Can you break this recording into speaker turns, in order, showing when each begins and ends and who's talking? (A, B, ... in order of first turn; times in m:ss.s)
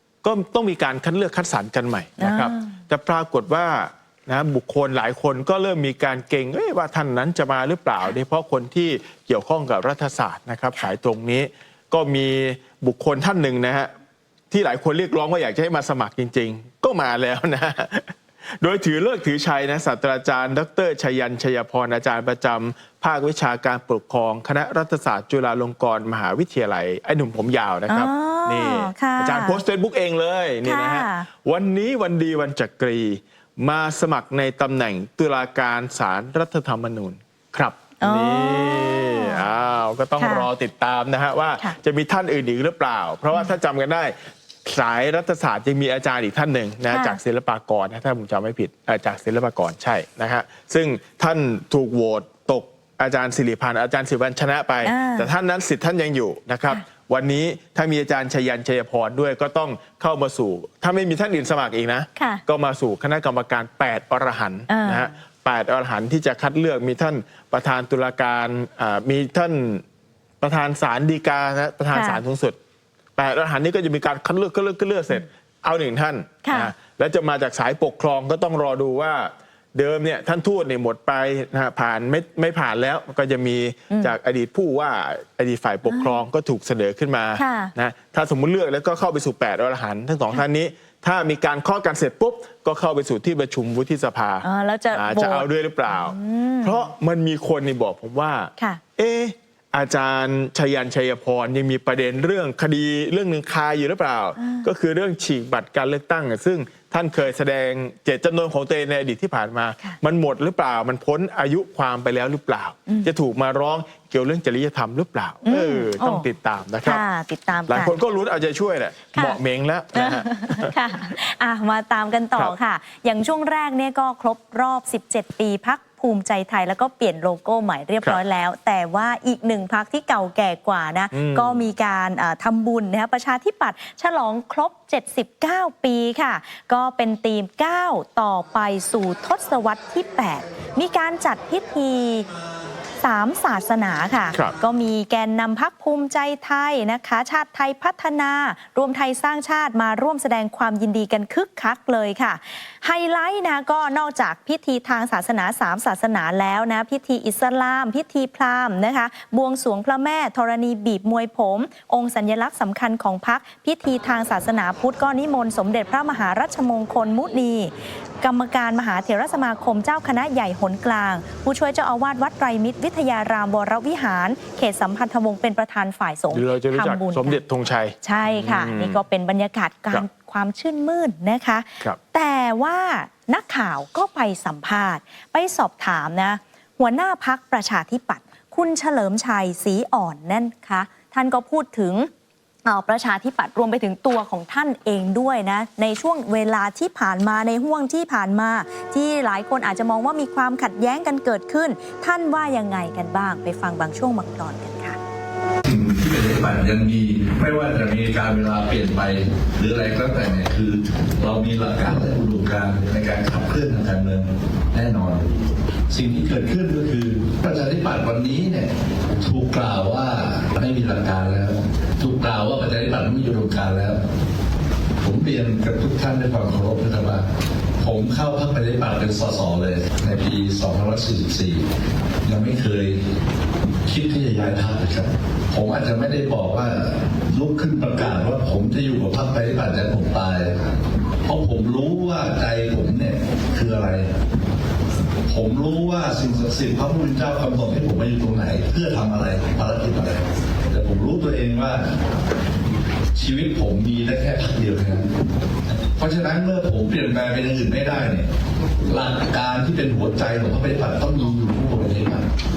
0:00.2-0:13.9 A
0:02.2-0:02.7 B
0:14.5-1:09.8 A
0:27.9-0:29.6 B
0:30.6-0:31.3 B
0:38.0-0:39.4 B
0:40.2-0:40.5 B
0:46.9-0:47.2 B
0:54.8-0:55.3 B
1:02.2-1:02.4 B
1:04.7-1:05.1 B
1:10.4-1:12.6 A
1:11.9-1:12.2 B
1:13.2-1:57.0 A
1:16.4-1:16.7 B
1:25.9-1:26.2 B
1:27.4-1:27.7 B
1:34.4-1:36.9 B
1:44.4-1:44.7 B
1:55.4-1:56.2 B
1:56.8-1:57.9 B
1:57.7-2:00.8 A
1:59.1-1:59.4 B
1:59.9-2:22.3 B
2:11.1-2:11.6 A
2:23.0-2:57.4 B
2:56.3-2:59.0 A
2:58.0-3:12.1 B
3:12.6-3:25.0 B
3:25.6-3:44.0 C
3:45.0-3:47.3 C
3:47.8-3:51.7 C
3:52.2-3:53.1 C
3:53.8-4:00.6 C
4:01.2-4:04.1 C
4:05.3-4:12.0 C
4:13.1-4:15.1 C
4:15.9-4:22.3 C